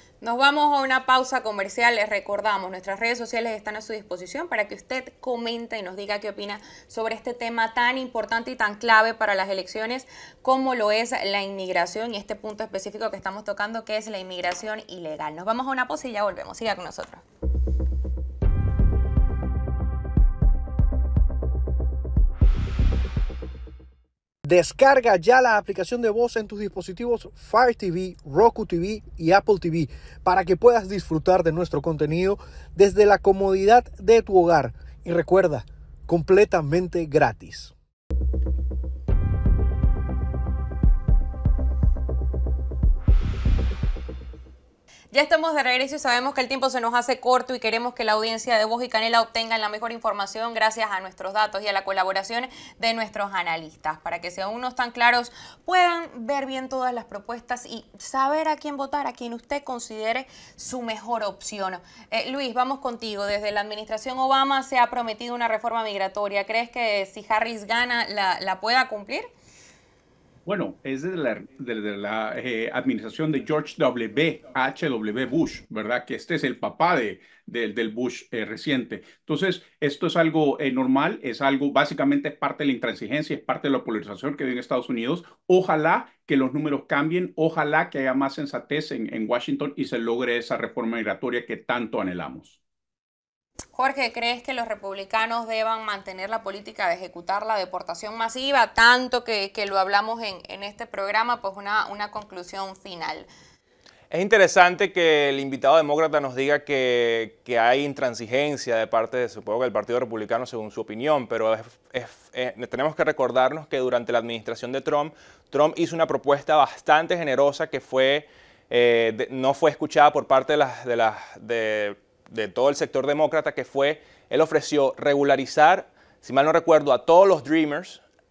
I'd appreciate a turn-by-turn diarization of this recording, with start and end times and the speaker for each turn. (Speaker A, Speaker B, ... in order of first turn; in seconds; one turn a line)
Speaker A: 0.2-17.2
Speaker B: 24.4-37.7
Speaker A: 45.1-69.3
Speaker C: 70.5-92.6
Speaker A: 93.8-103.3
Speaker D: 104.1-128.0